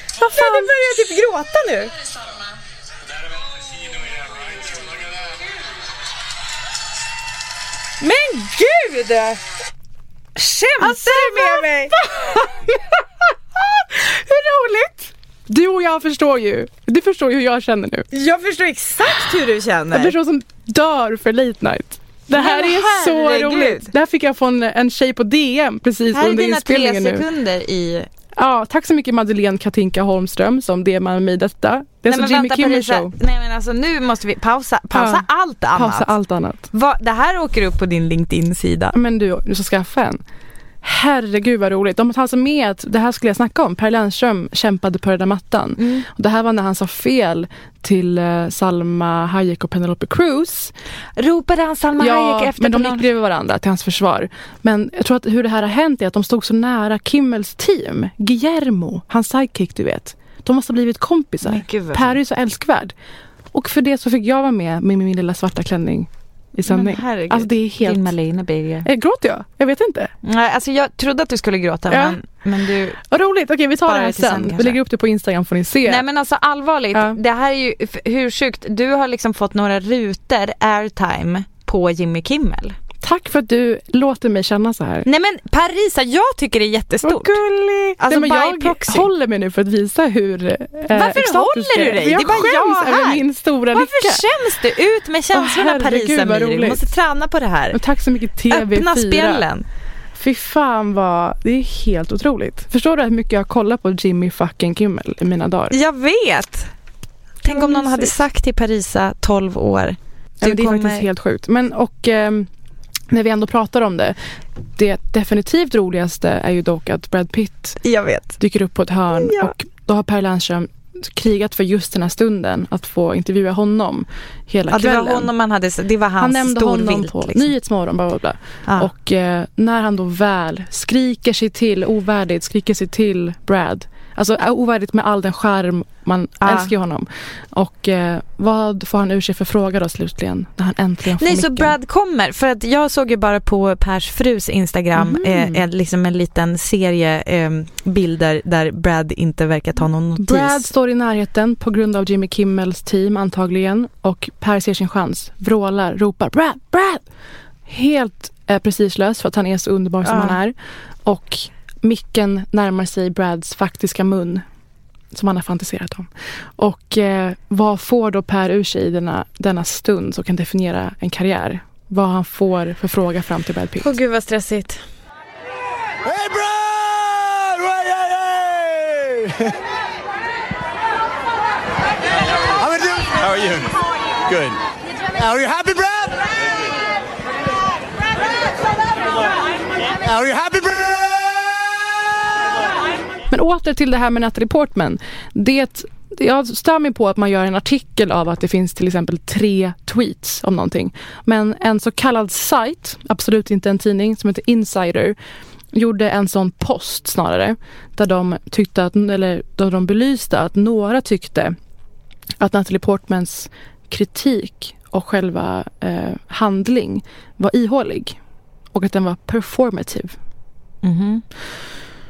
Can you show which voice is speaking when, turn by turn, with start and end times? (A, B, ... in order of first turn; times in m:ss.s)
0:00.2-0:01.9 A
0:00.2-0:00.7 B
0:08.0-0:09.4 A
0:10.4-0:12.5 A
0:10.8-0:12.7 B
0:14.0-0:14.9 A
0:14.3-0:14.9 B
0:15.5-0:18.1 B
0:18.1-0:20.2 A
0:19.9-0:27.2 B
0:22.3-0:23.9 A
0:26.1-0:28.1 A
0:28.4-0:33.1 B
0:32.1-0:36.1 A
0:34.9-0:36.7 B
0:36.7-0:38.9 A
0:38.9-0:40.2 B
0:40.8-0:50.7 B
0:45.8-0:46.0 A
0:51.2-0:53.1 A
0:52.0-1:02.9 B
1:01.4-1:02.2 A
1:03.5-1:08.1 B
1:06.7-1:08.9 A
1:08.8-1:10.1 B
1:10.2-1:13.0 A
1:11.9-1:12.2 B
1:13.0-1:16.0 B
1:13.8-1:14.8 A
1:15.8-1:22.8 A
1:23.0-1:25.1 B
1:25.0-1:27.4 A
1:27.0-1:34.2 B
1:28.0-1:29.1 A
1:30.9-1:37.8 A
1:35.3-1:36.8 B
1:37.7-1:39.4 B
1:38.5-1:39.6 A
1:40.2-1:45.8 B
1:45.7-1:46.7 A
1:47.4-1:51.1 A
1:47.4-1:48.2 B
1:50.4-1:52.5 B
1:53.1-1:54.2 B
1:54.8-1:57.8 B
1:57.8-1:58.4 A
1:58.4-2:05.3 B
1:59.1-1:59.5 A
2:04.7-2:07.5 A
2:06.2-2:21.7 B
2:16.4-2:16.7 A
2:21.2-2:30.7 A
2:24.9-2:25.6 B
2:30.2-2:37.0 B
2:37.7-2:44.4 B
2:40.0-2:40.4 A
2:45.1-2:53.9 B
2:53.8-2:54.8 A
2:56.0-2:59.5 C
3:02.6-3:03.7 C
3:04.3-3:04.6 C
3:05.1-3:06.2 C
3:10.0-3:11.6 C
3:13.3-3:25.2 B
3:25.7-3:31.6 B
3:32.4-3:38.2 B
3:38.7-3:40.2 B
3:40.8-3:41.2 A